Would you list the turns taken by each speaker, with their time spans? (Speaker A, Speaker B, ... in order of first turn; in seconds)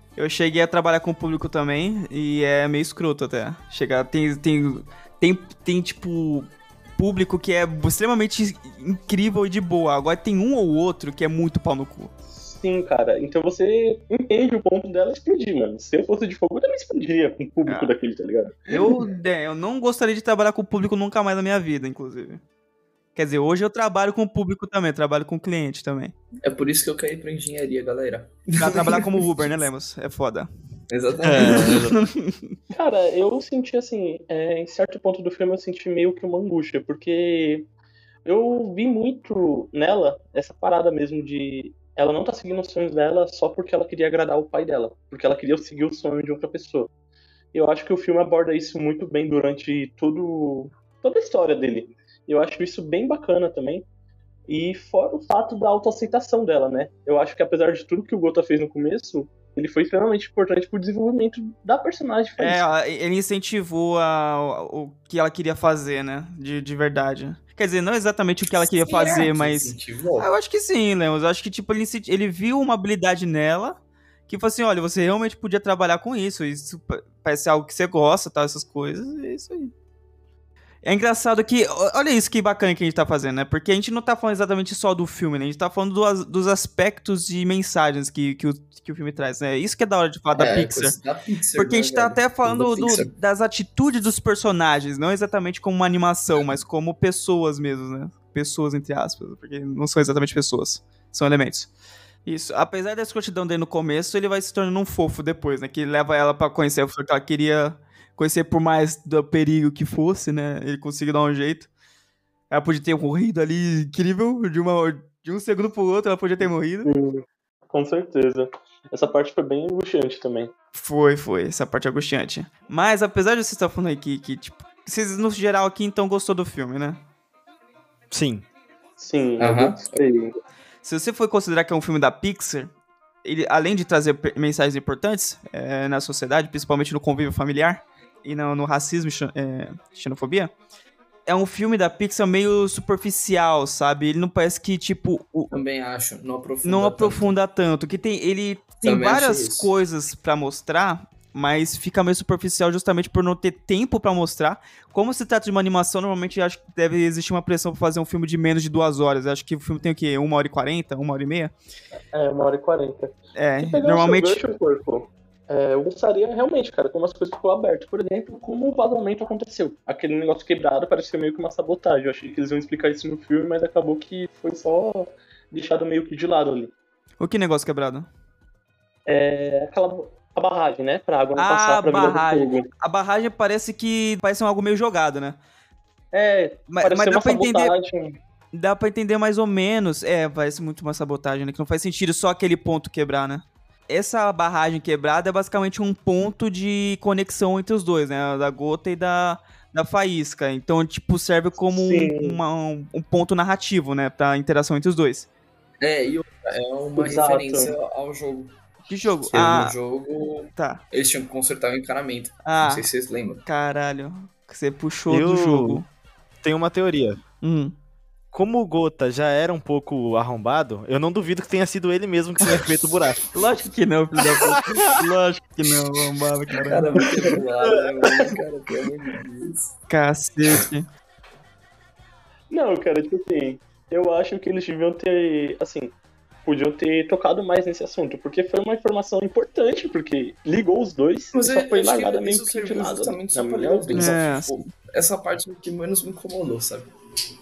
Speaker A: 0.2-12.1, 17.7-17.9, 18.7-22.4, 23.1-26.1, 28.6-30.5, 31.4-32.6, 62.4-79.7, 80.8-91.0, 91.6-101.7, 102.3-111.7, 112.5-116.9, 120.7-127.0, 130.8-132.7, 133.2-140.5, 141.3-145.5, 146.6-161.5, 163.4-164.4, 177.2-178.1, 181.4-185.4, 186.7-187.8, 188.5-205.3, 208.9-209.8, 210.6-210.8, 212.4-212.9, 213.4-215.9, 217.4-217.8, 223.3-227.0, 229.9-230.9, 243.9-244.6
Speaker B: 12.4-19.0, 32.7-37.7, 38.2-46.9, 47.5-53.9, 54.5-62.6, 116.8-120.5, 129.0-130.4, 162.1-176.7, 179.1-182.7, 186.1-188.2, 201.7-202.4, 207.0-207.8, 227.0-227.4, 228.0-228.3, 232.5-235.9, 236.4-244.2
Speaker C: 26.4-29.1, 30.9-31.9, 68.5-70.3, 90.3-93.1, 129.4-129.9, 145.5-147.3, 148.8-149.7, 205.8-208.5, 209.3-213.4, 226.7-229.8, 241.3-246.9
Speaker D: 31.2-32.0, 128.1-128.4, 215.1-215.8, 216.4-217.2, 218.3-223.2